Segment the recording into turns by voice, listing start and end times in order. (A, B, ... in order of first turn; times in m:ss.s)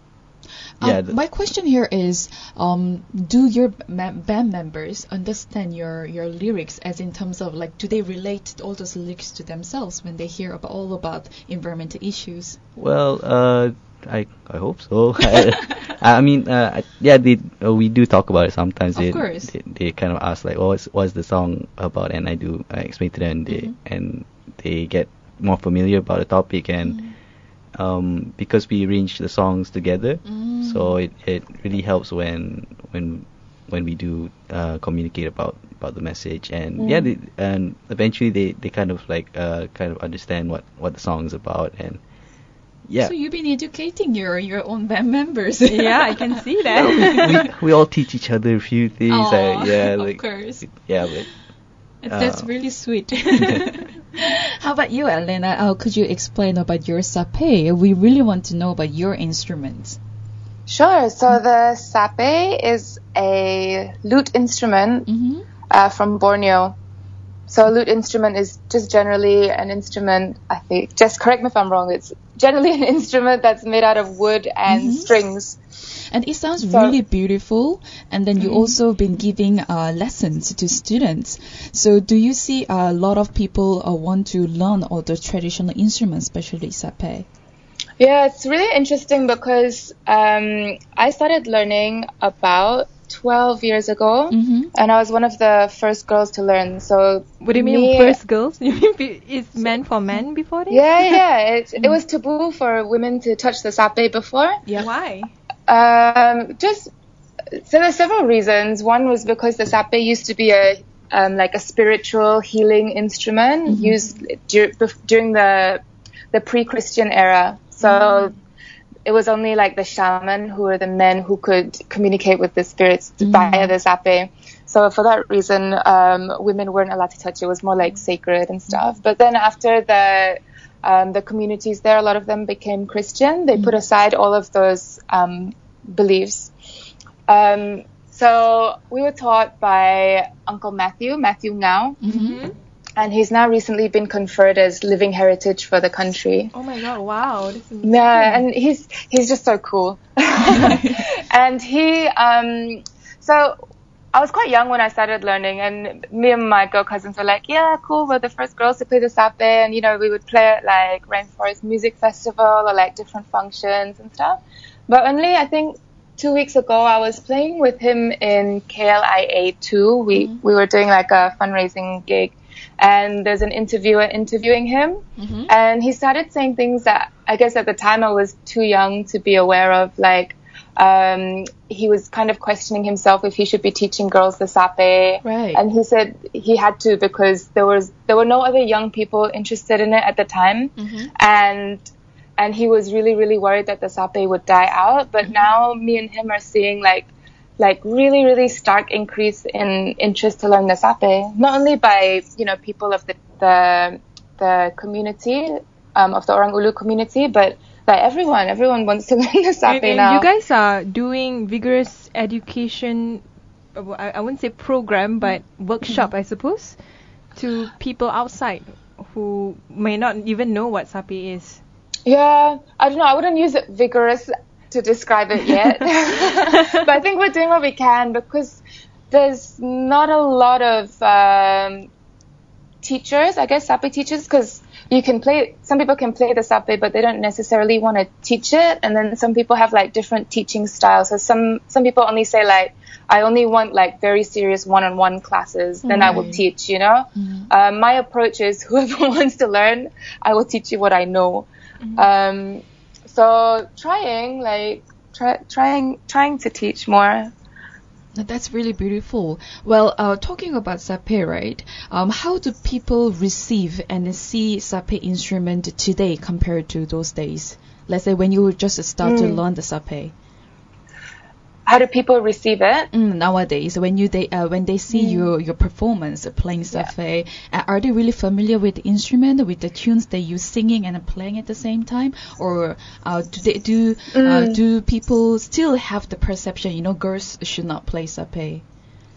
0:00.8-0:01.2 A
0:00.8-0:12.6 B
0:12.8-0:27.0 A
0:18.9-0:19.5 B
0:23.5-0:23.7 B
0:26.8-0:27.1 B
0:27.7-0:42.0 A
0:30.2-0:31.0 B
0:36.8-0:37.1 B
0:42.8-0:43.1 A
0:43.0-0:47.2 B
0:45.6-0:47.5 C
0:46.7-0:51.3 A
0:49.1-0:51.1 B
0:52.0-1:00.0 B
0:52.1-0:52.5 A
1:00.7-1:05.1 D
1:05.1-1:05.4 B
1:05.7-1:06.8 D
1:07.5-1:15.6 D
1:14.7-1:15.1 B
1:16.1-1:27.2 B
1:16.6-1:17.0 D
1:18.4-1:18.7 D
1:28.0-1:38.2 D
1:34.3-1:34.7 B
1:37.4-1:41.1 C
1:40.7-1:44.6 D
1:44.8-1:45.3 C
1:45.7-1:46.9 D
1:47.6-1:55.8 D
1:53.7-1:54.0 B
1:56.3-1:58.3 D
1:57.8-1:58.3 B
1:59.0-2:16.5 D
2:03.2-2:03.7 B
2:17.3-2:22.0 D
2:22.0-2:22.4 B
2:22.1-2:22.6 C
2:23.0-2:26.5 D
2:26.5-2:28.4 C
2:27.8-2:33.6 D
2:30.5-2:31.0 B
2:34.1-3:11.8 D
2:50.1-2:50.4 B
2:55.2-2:55.5 B
3:05.2-3:05.6 B
3:10.8-3:11.1 B
3:12.4-3:17.1 D
3:17.6-3:30.3 D
3:29.7-3:33.2 C
3:33.7-3:36.8 C
3:37.3-3:41.6 C
3:42.0-3:48.6 D
3:46.5-3:46.7 C
3:49.1-3:51.9 D
3:52.8-4:17.3 D
4:05.8-4:06.4 B
4:06.0-4:06.3 C
4:07.2-4:07.5 B
4:11.8-4:12.1 C
4:18.1-4:30.1 B
4:29.0-4:29.4 D
4:31.6-4:32.9 D
4:32.9-4:48.6 B
4:34.9-4:35.3 D
4:44.1-4:44.6 D